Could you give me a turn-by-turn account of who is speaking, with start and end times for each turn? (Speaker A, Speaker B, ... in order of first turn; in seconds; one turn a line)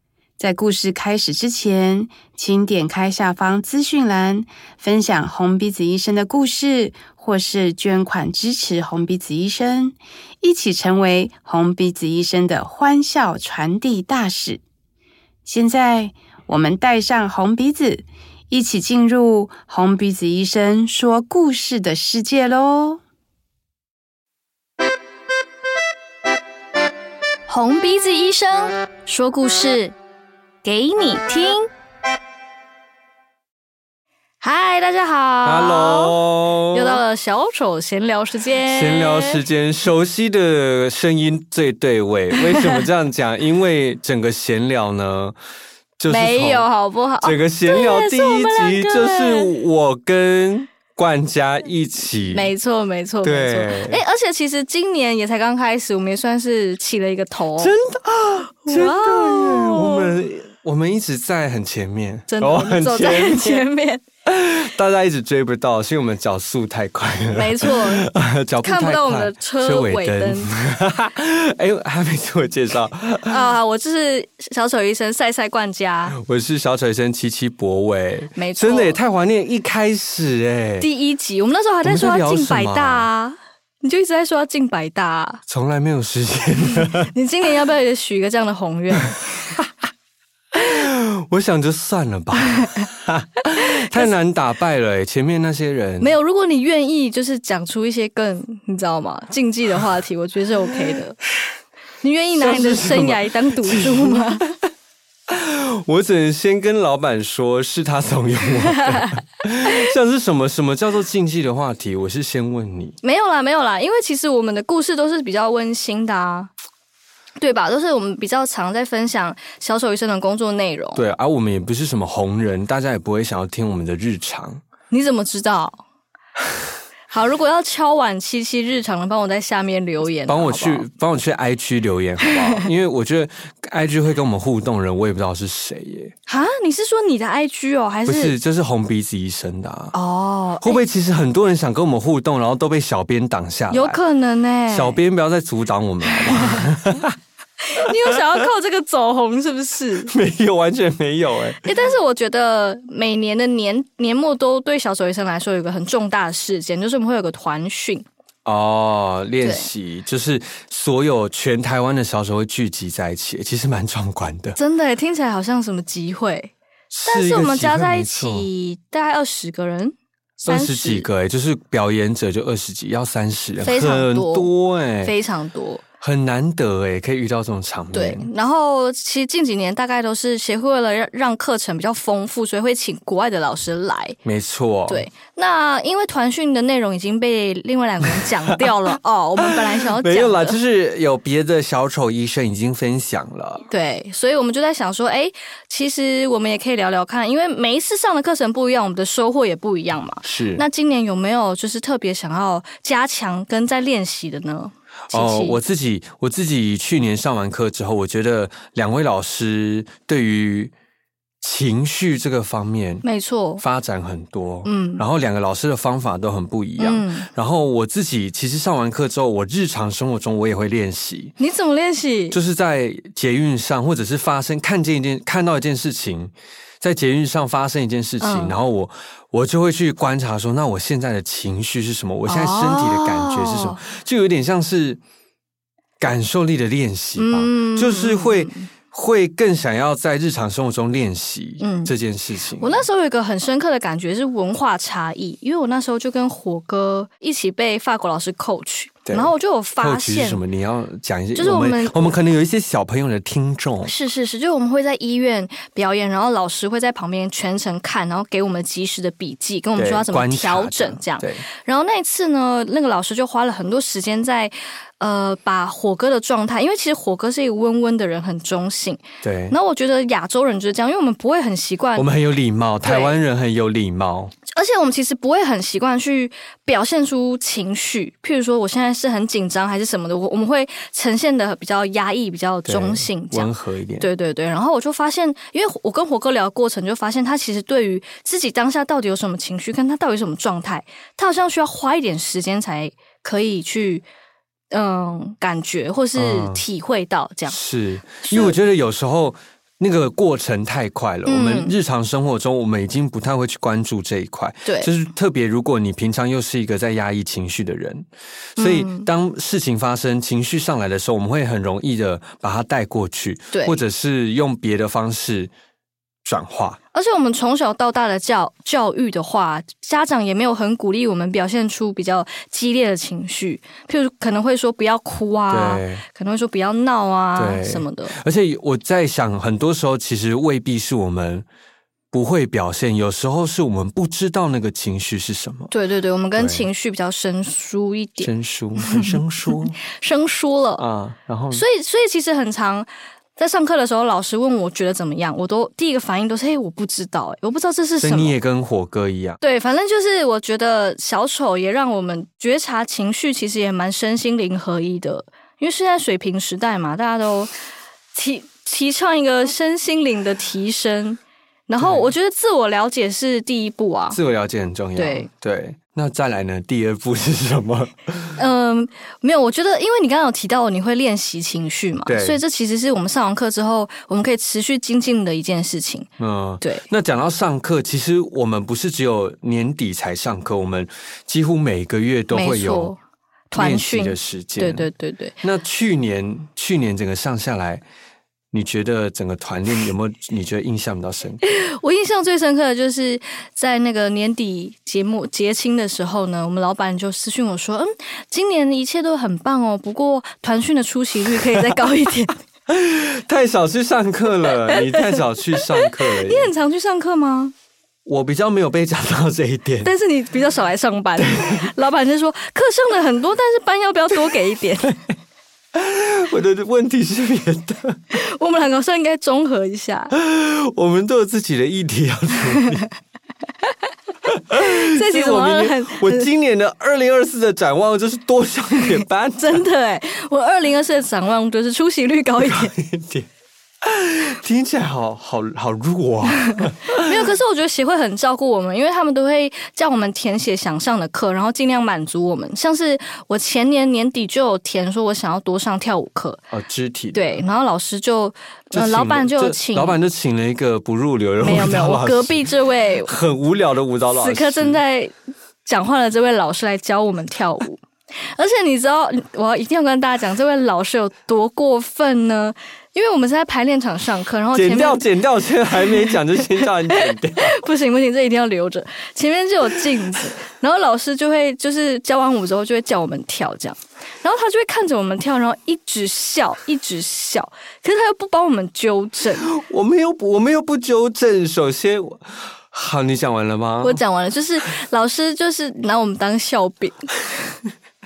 Speaker A: 0.4-14.6
Speaker A: 15.4-23.0
Speaker B: 27.5-29.9
Speaker B: 30.6-31.7
Speaker B: 34.4-36.2
Speaker C: 35.4-37.0
Speaker B: 36.7-39.4
Speaker C: 38.6-45.4
Speaker B: 42.3-42.8
Speaker C: 46.0-46.7
Speaker B: 46.1-49.5
Speaker C: 47.2-52.5
Speaker B: 52.3-57.8
Speaker C: 53.2-54.0
Speaker C: 57.6-63.6
Speaker B: 58.6-60.1
Speaker B: 62.3-64.0
Speaker C: 64.2-73.5
Speaker B: 67.3-68.0
Speaker B: 68.6-70.5
Speaker B: 73.2-76.2
Speaker C: 76.1-80.9
Speaker B: 78.3-79.0
Speaker B: 80.8-85.4
Speaker C: 81.8-83.1
Speaker C: 85.5-87.1
Speaker B: 86.9-89.4
Speaker C: 90.5-96.2
Speaker B: 96.0-101.2
Speaker B: 102.0-104.4
Speaker C: 102.3-104.4
Speaker C: 105.3-113.0
Speaker B: 113.0-116.5
Speaker B: 117.4-121.0
Speaker C: 121.0-124.6
Speaker B: 124.9-125.8
Speaker B: 127.1-130.8
Speaker C: 130.3-136.1
Speaker B: 132.2-132.6
Speaker B: 136.3-138.4
Speaker C: 138.0-139.9
Speaker B: 139.9-140.8
Speaker C: 140.6-144.0
Speaker B: 143.7-145.0
Speaker C: 144.7-147.2
Speaker B: 146.3-146.6
Speaker B: 147.7-150.1
Speaker C: 150.1-151.7
Speaker B: 151.6-158.0
Speaker C: 158.4-164.6
Speaker B: 159.4-159.7
Speaker B: 164.6-166.5
Speaker C: 166.9-168.5
Speaker B: 167.0-171.1
Speaker C: 170.4-175.1
Speaker B: 173.6-175.8
Speaker C: 176.0-178.3
Speaker B: 177.9-184.2
Speaker C: 184.2-185.1
Speaker B: 184.9-190.6
Speaker C: 188.1-188.7
Speaker C: 189.4-193.6
Speaker B: 193.7-205.6
Speaker C: 200.2-200.6
Speaker C: 205.1-210.7
Speaker C: 211.4-213.0
Speaker B: 213.0-213.6
Speaker C: 213.6-221.3
Speaker B: 214.6-215.0
Speaker B: 216.8-217.2
Speaker B: 221.4-222.4
Speaker C: 222.3-235.0
Speaker B: 228.2-228.6
Speaker B: 232.2-233.8
Speaker C: 236.0-242.9
Speaker B: 237.2-238.7
Speaker B: 241.6-241.9
Speaker B: 242.6-250.4
Speaker C: 249.1-253.9
Speaker B: 251.3-252.2
Speaker B: 253.8-272.1
Speaker C: 259.8-261.4
Speaker C: 269.2-269.6
Speaker C: 271.9-274.3
Speaker B: 272.8-273.2
Speaker B: 274.5-294.1
Speaker C: 282.6-284.1
Speaker B: 294.7-297.6
Speaker C: 296.1-296.6
Speaker C: 297.5-315.5
Speaker B: 298.2-298.6
Speaker B: 301.2-301.7
Speaker B: 304.6-304.9
Speaker B: 308.6-309.1
Speaker B: 313.5-313.8
Speaker C: 316.2-316.8
Speaker B: 316.9-328.2
Speaker C: 325.5-326.0
Speaker C: 327.4-331.4
Speaker C: 332.1-335.7
Speaker B: 335.7-339.2
Speaker C: 336.4-336.7
Speaker C: 338.2-339.8
Speaker B: 339.8-340.8
Speaker C: 340.8-341.6
Speaker B: 341.5-348.4
Speaker C: 348.0-349.4
Speaker B: 349.4-357.5
Speaker B: 358.1-364.2
Speaker C: 361.8-362.1
Speaker C: 364.1-368.4
Speaker B: 364.9-365.3
Speaker B: 368.4-376.1
Speaker C: 372.0-372.4
Speaker C: 376.2-382.9
Speaker B: 382.3-383.0
Speaker B: 383.5-385.4
Speaker C: 383.5-384.9
Speaker C: 385.4-387.8
Speaker C: 388.5-391.4
Speaker B: 391.4-402.4
Speaker C: 402.7-406.5
Speaker B: 404.5-407.5
Speaker C: 408.0-409.9
Speaker B: 409.8-415.0
Speaker C: 411.2-411.7
Speaker C: 415.7-418.2
Speaker B: 418.1-420.1
Speaker C: 420.1-422.8
Speaker C: 424.2-429.6
Speaker B: 424.5-426.3
Speaker B: 429.4-432.7
Speaker C: 432.4-433.3
Speaker C: 433.8-437.3
Speaker B: 436.9-446.4
Speaker C: 446.5-447.4
Speaker B: 447.1-450.0
Speaker C: 448.7-452.5
Speaker B: 451.4-453.2
Speaker C: 453.0-454.8
Speaker B: 454.1-455.1
Speaker B: 455.6-457.8
Speaker B: 458.3-465.0
Speaker C: 464.5-467.6
Speaker B: 465.7-479.5
Speaker C: 479.4-484.0
Speaker B: 483.8-487.1